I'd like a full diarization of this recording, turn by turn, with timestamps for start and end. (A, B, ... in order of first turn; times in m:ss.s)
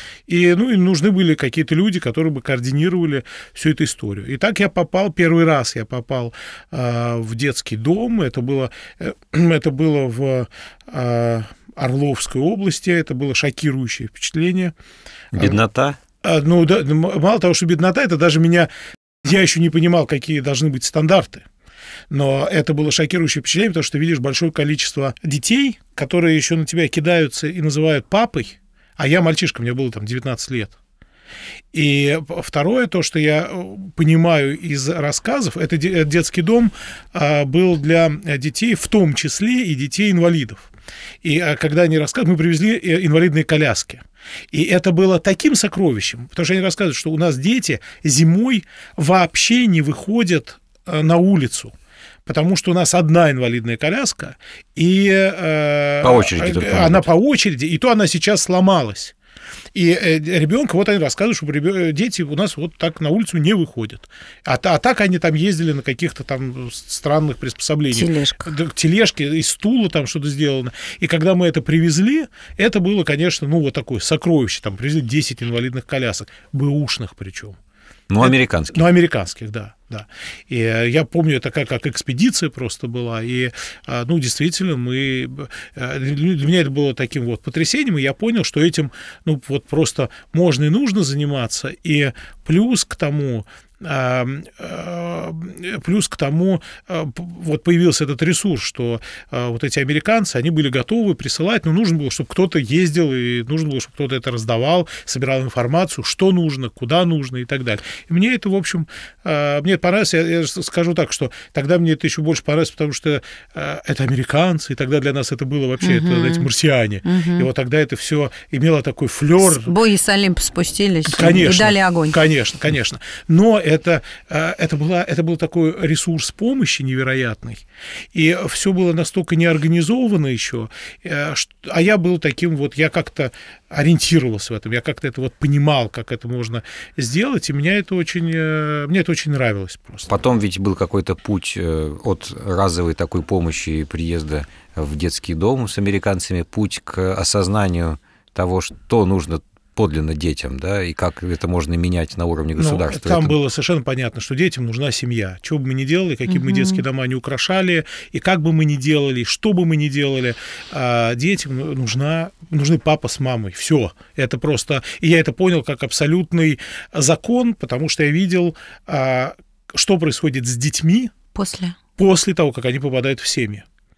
0:00.3-0:14.7 A
0:15.3-0:16.0 B
0:16.2-0:18.7 A
0:19.2-0:21.4 A
0:22.1-0:30.8 A
0:31.7-0:40.7 A
0:41.2-0:51.7 A
0:52.2-0:59.2 A
0:56.0-0:57.1 B
0:59.8-1:17.6 A
1:07.9-1:08.5 C
1:18.1-1:18.8 B
1:18.2-1:59.7 A
1:55.8-1:56.5 C
1:57.0-1:57.5 C
1:59.4-2:02.2 C
2:01.1-2:07.6 A
2:08.1-2:20.1 A
2:20.1-2:33.4 B
2:32.6-2:51.1 A
2:36.3-2:36.8 C
2:51.4-2:51.8 C
2:52.0-2:53.6 A